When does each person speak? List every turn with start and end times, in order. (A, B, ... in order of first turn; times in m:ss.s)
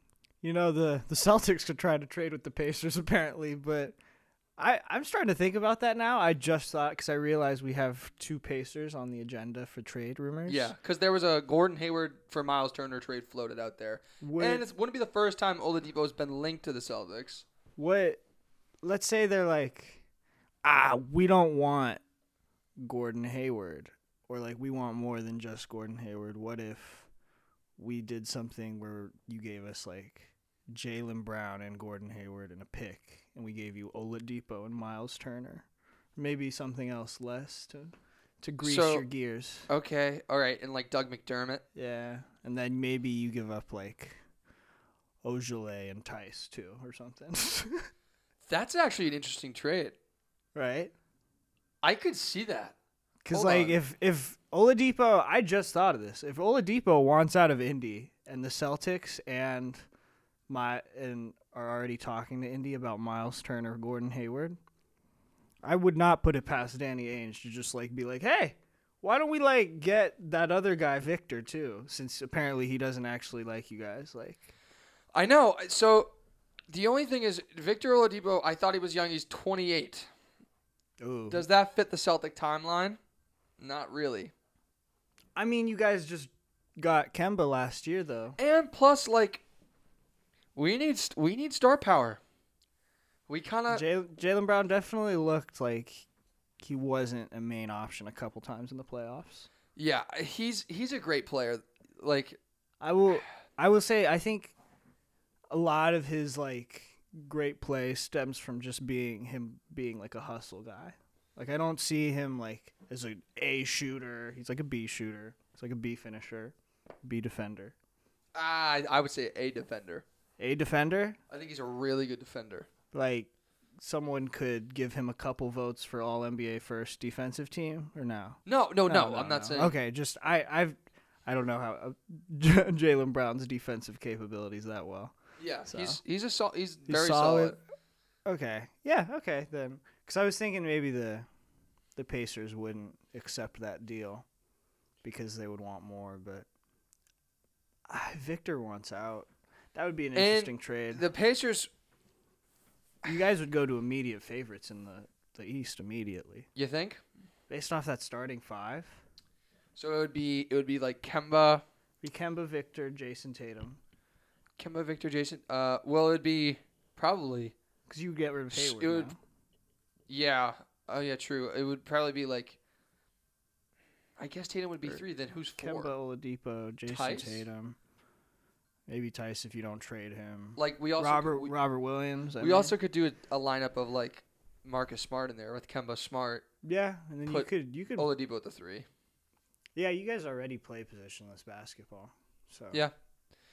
0:00.4-0:04.0 A
0:04.6-0:10.7 A
0:10.5-0:17.4 B
0:14.2-0:14.6 A
0:17.8-0:18.2 A
0:18.8-0:20.0 A
0:20.6-0:22.0 A
0:22.8-0:27.1 A
0:27.8-0:39.7 A
0:38.6-0:39.1 B
0:39.7-0:41.6 B
0:41.7-0:44.2 A
0:45.2-0:47.9 A
0:48.5-0:50.0 B
0:50.5-0:50.9 A
0:51.8-0:52.7 B
0:53.2-0:59.8 A
0:53.3-0:53.8 B
1:00.5-1:04.6 A
1:05.6-1:14.5 A
1:15.1-1:16.1 B
1:16.7-1:20.1 B
1:21.0-1:21.4 A
1:21.3-1:23.0 B
1:23.6-1:24.3 B
1:25.4-1:28.4 A
1:28.4-1:29.4 B
1:30.5-1:32.2 B
1:33.3-1:33.8 B
1:33.7-1:36.0 A
1:36.6-1:39.5 A
1:39.8-1:42.4 B
1:42.8-1:44.5 A
1:45.5-1:57.7 A
1:58.3-2:00.0 B
2:00.4-2:01.2 A
2:01.3-2:02.7 B
2:02.9-2:16.0 A
2:08.4-2:09.8 B
2:15.4-2:17.6 B
2:16.8-2:17.6 A
2:18.2-2:21.3 A
2:22.0-2:24.2 A
2:25.0-2:26.5 A
2:27.9-2:31.0 A
2:30.1-2:31.7 B
2:33.0-2:36.5 A
2:36.6-2:37.0 B
2:37.5-2:39.0 A
2:39.8-2:41.6 B
2:42.0-2:43.8 A
2:44.6-2:47.5 B
2:47.9-2:49.2 A
2:48.5-2:49.1 B
2:50.1-2:52.6 B
2:54.2-2:55.9 B
2:55.6-2:57.8 A
2:56.9-2:57.4 B
2:58.9-3:02.7 A
3:00.6-3:01.5 B
3:02.4-3:06.4 B
3:06.6-3:08.1 A
3:07.3-3:08.9 B
3:09.7-3:12.8 A